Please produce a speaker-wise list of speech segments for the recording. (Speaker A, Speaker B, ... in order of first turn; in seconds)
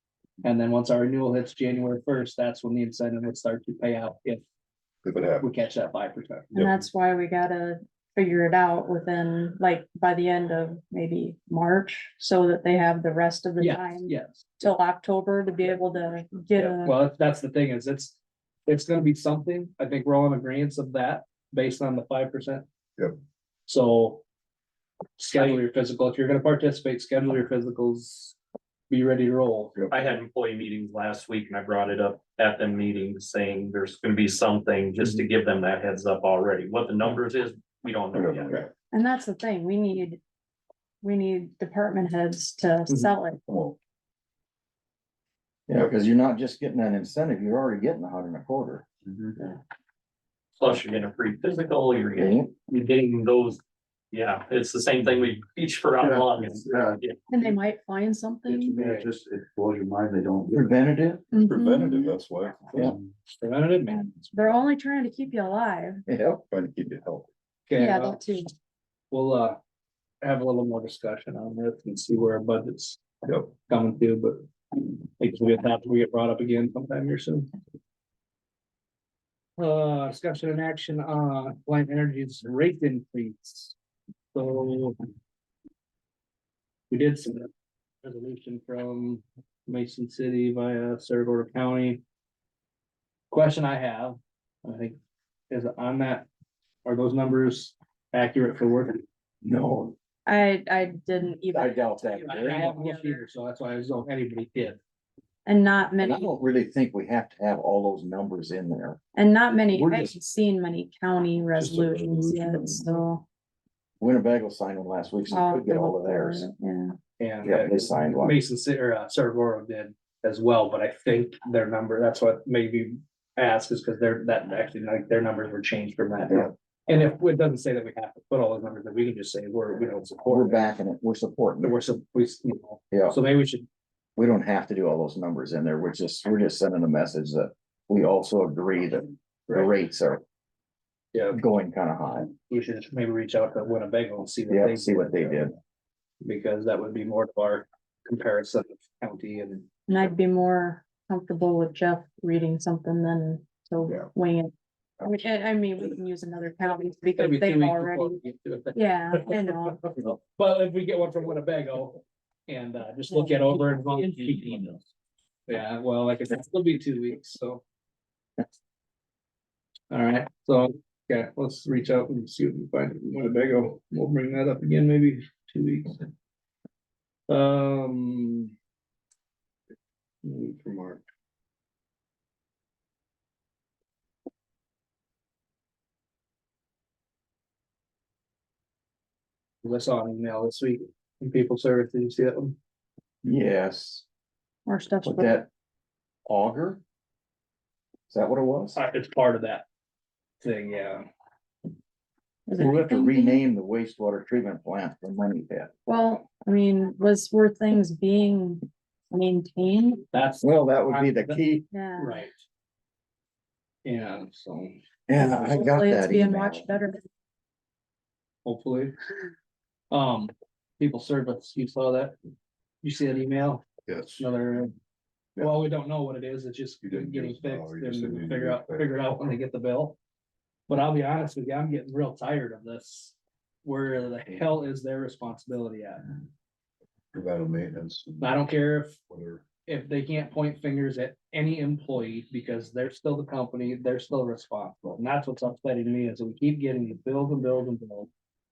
Speaker A: 0.4-4.4, 5.4-6.6, 13.6-14.4, 16.6-22.6, 23.7-24.2, 25.2-28.4, 28.9-29.8, 58.8-59.1, 63.4-64.2, 67.7-68.2, 69.1-69.6, 70.2-74.5, 75.2-77.5, 79.6-83.8, 84.3-85.0, 86.9-87.5, 88.0-92.0, 93.3-95.0, 95.5-96.3, 96.8-99.0, 102.2-104.8, 117.2-130.6, 131.6-133.7, 142.5-145.5, 146.2-149.7, 157.2-164.8, 165.5-167.6, 169.9-176.1, 177.3-178.5, 180.2-181.0, 189.6-192.6, 198.8-199.7, 200.4-201.1, 210.1-211.4, 212.0-212.4, 213.8-214.8, 218.4-219.0, 219.9-222.2, 222.8-224.7, 225.4-230.0, 230.7-236.0, 238.2-239.0, 239.7-248.1
Speaker B: 5.0-5.5, 38.1-38.7, 43.5-43.8, 61.4-62.9, 66.5-67.3, 73.3-73.5, 111.6-112.8, 223.9-224.3, 226.8-228.9, 237.1-238.5, 239.1-239.5
Speaker C: 6.5-17.0, 38.9-40.2, 41.0-43.4, 57.3-58.8, 61.3-62.2, 64.3-66.0, 67.8-68.5, 100.3-103.2, 105.5-106.3, 109.2-113.2, 115.3-117.0, 149.9-154.5, 155.0-158.2, 158.7-159.9, 194.7-195.4, 202.5-203.4, 205.9-210.0, 211.7-212.2, 215.2-217.0
Speaker D: 29.9-38.6, 50.6-53.6, 54.1-57.2
Speaker E: 45.7-48.9, 52.2-52.5, 60.5-61.2, 62.7-63.0, 66.1-66.4, 99.4-100.0, 101.5-102.7, 106.0-109.0, 109.7-110.1, 114.0-116.5, 117.4-118.4, 130.3-131.8, 132.9-133.2, 134.2-140.2, 141.3-142.3, 144.5-145.5, 193.2-194.1, 195.0-195.5, 196.3-196.8, 198.1-198.8, 202.6-205.7, 210.4-211.7, 215.1-216.7
Speaker F: 56.1-57.0, 58.6-60.6